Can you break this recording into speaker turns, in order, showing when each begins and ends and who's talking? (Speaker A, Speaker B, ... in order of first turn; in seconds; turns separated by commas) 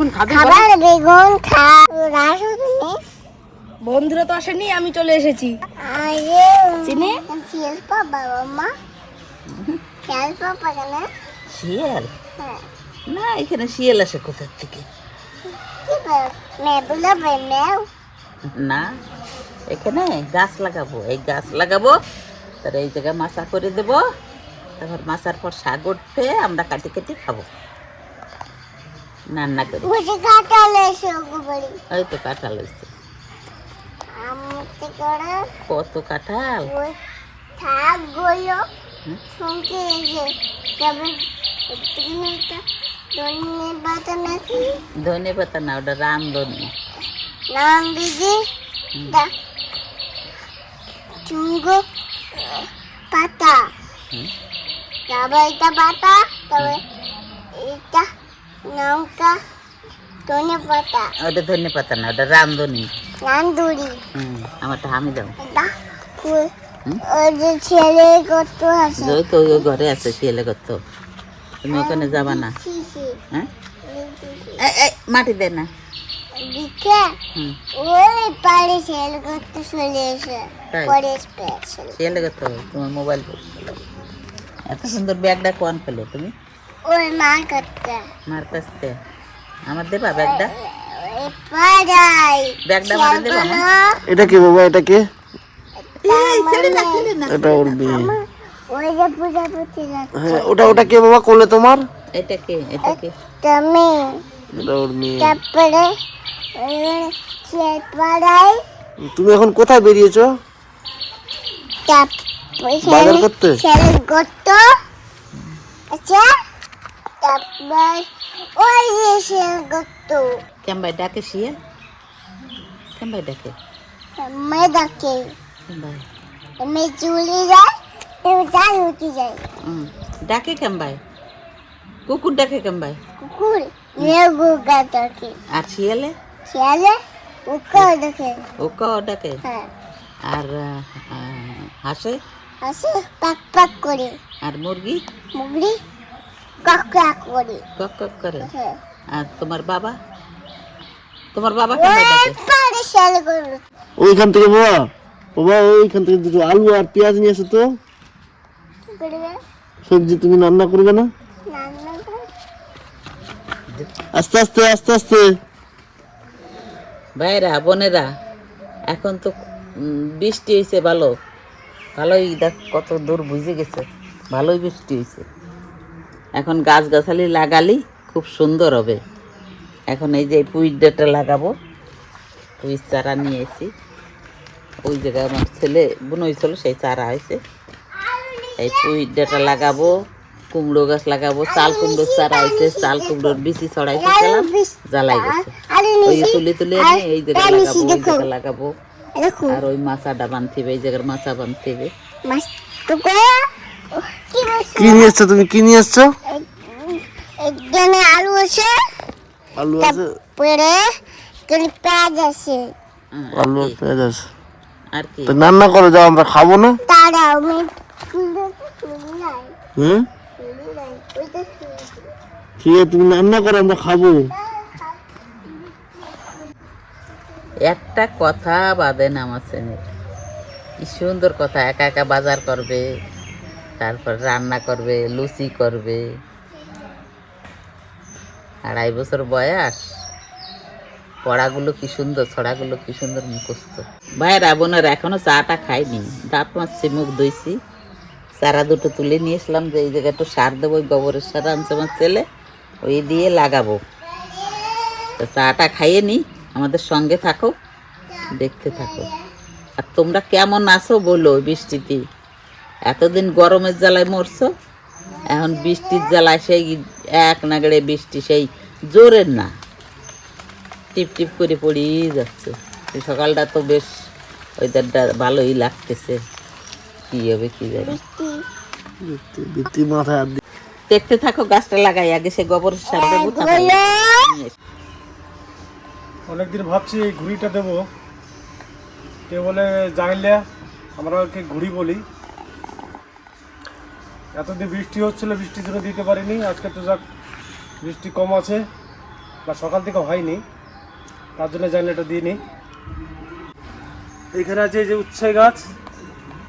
Speaker A: 0.2-3.0, Speaker B: 3.8-5.5, Speaker A: 5.8-8.7, Speaker B: 6.8-7.2, Speaker C: 9.5-9.8, Speaker A: 10.1-11.0, Speaker C: 11.5-12.1, Speaker C: 13.1-14.8, Speaker A: 15.8-17.8, Speaker C: 18.6-18.9, Speaker C: 19.7-21.9, Speaker C: 22.6-24.0, Speaker C: 24.8-27.4, Speaker C: 29.3-29.9, Speaker A: 29.8-31.7, Speaker C: 31.9-32.9, Speaker A: 34.1-35.4, Speaker C: 35.7-36.7, Speaker A: 36.6-36.9, Speaker A: 37.6-38.6, Speaker A: 39.3-40.3, Speaker A: 40.8-42.6, Speaker A: 43.1-44.7, Speaker C: 45.0-46.7, Speaker A: 47.5-48.4, Speaker A: 51.2-51.8, Speaker A: 52.4-53.6, Speaker A: 55.1-56.8, Speaker A: 57.5-58.0, Speaker A: 58.7-59.3, Speaker A: 60.3-61.1, Speaker C: 61.2-62.9, Speaker A: 63.2-64.0, Speaker C: 64.2-65.3, Speaker A: 65.4-66.5, Speaker A: 67.0-69.6, Speaker C: 69.0-70.8, Speaker C: 71.6-72.5, Speaker A: 71.7-73.2, Speaker A: 73.9-74.6, Speaker C: 74.6-75.7, Speaker A: 76.4-77.0, Speaker A: 77.8-81.9, Speaker C: 80.7-81.0, Speaker C: 82.0-83.6, Speaker C: 84.7-86.3, Speaker A: 86.8-88.0, Speaker C: 88.3-88.9, Speaker C: 89.7-90.5, Speaker A: 90.2-94.0, Speaker C: 92.7-93.6, Speaker D: 94.1-95.0, Speaker A: 95.8-97.1, Speaker C: 96.0-98.0, Speaker D: 97.4-98.1, Speaker A: 97.8-100.7, Speaker D: 100.2-101.8, Speaker C: 100.6-100.9, Speaker C: 102.1-103.1, Speaker A: 102.9-104.2, Speaker D: 104.6-105.3, Speaker A: 105.2-105.9, Speaker A: 106.6-108.6, Speaker D: 109.1-110.3, Speaker A: 111.9-114.7, Speaker D: 112.9-113.5, Speaker A: 115.9-116.3, Speaker A: 117.2-120.3, Speaker C: 120.6-121.6, Speaker C: 123.0-123.5, Speaker A: 124.2-125.2, Speaker C: 125.7-126.0, Speaker A: 126.6-127.6, Speaker A: 128.2-129.4, Speaker C: 129.7-131.0, Speaker C: 132.1-133.0, Speaker A: 133.2-135.3, Speaker C: 135.6-136.1, Speaker A: 136.5-136.9, Speaker A: 137.5-138.4, Speaker C: 138.6-139.4, Speaker C: 140.3-142.2, Speaker A: 142.6-144.1, Speaker C: 144.4-145.0, Speaker A: 145.3-145.8, Speaker A: 146.6-147.6, Speaker C: 147.8-148.5, Speaker A: 148.4-148.8, Speaker C: 149.2-150.0, Speaker C: 151.3-152.4, Speaker A: 151.7-153.6, Speaker D: 154.0-154.8, Speaker D: 155.4-157.7, Speaker A: 158.9-159.4, Speaker D: 159.9-161.1, Speaker A: 161.5-162.2, Speaker D: 164.2-165.2, Speaker C: 167.2-168.1, Speaker C: 168.9-171.1, Speaker C: 172.0-175.2, Speaker C: 176.4-179.0, Speaker C: 179.9-181.5, Speaker C: 182.6-183.7, Speaker C: 184.8-187.4, Speaker A: 188.0-189.7, Speaker C: 188.6-189.9, Speaker C: 190.5-195.5, Speaker A: 191.5-193.4, Speaker A: 193.9-198.2, Speaker C: 196.0-198.7, Speaker A: 199.2-199.6, Speaker C: 199.5-201.9, Speaker A: 202.2-203.3, Speaker A: 203.9-205.1, Speaker D: 204.8-206.1, Speaker A: 206.3-208.7, Speaker D: 209.6-210.1, Speaker A: 209.8-210.8, Speaker A: 211.5-212.6, Speaker C: 213.1-213.8, Speaker D: 213.4-214.2, Speaker C: 214.9-215.4, Speaker D: 215.3-216.7, Speaker A: 216.9-219.5, Speaker A: 220.4-222.1, Speaker D: 222.6-224.2, Speaker A: 224.3-225.0, Speaker C: 227.7-229.8, Speaker C: 230.8-232.8, Speaker C: 233.8-236.0, Speaker C: 238.7-239.8, Speaker C: 241.2-247.6, Speaker C: 248.4-252.2, Speaker C: 252.8-253.8, Speaker A: 254.4-255.1, Speaker C: 255.2-257.5, Speaker A: 258.1-259.2, Speaker C: 258.4-259.1, Speaker C: 259.8-262.0, Speaker C: 262.9-264.5, Speaker A: 265.2-266.2, Speaker C: 265.3-269.5, Speaker C: 270.9-273.9, Speaker C: 274.6-276.2, Speaker C: 277.1-278.0, Speaker A: 277.8-278.4, Speaker D: 279.0-280.4, Speaker C: 280.9-284.5, Speaker A: 282.9-284.3, Speaker E: 286.3-287.8, Speaker E: 289.3-290.4, Speaker E: 291.0-292.0, Speaker E: 294.3-297.0, Speaker E: 297.8-298.6, Speaker E: 299.4-300.4, Speaker E: 301.4-302.4, Speaker E: 304.3-305.7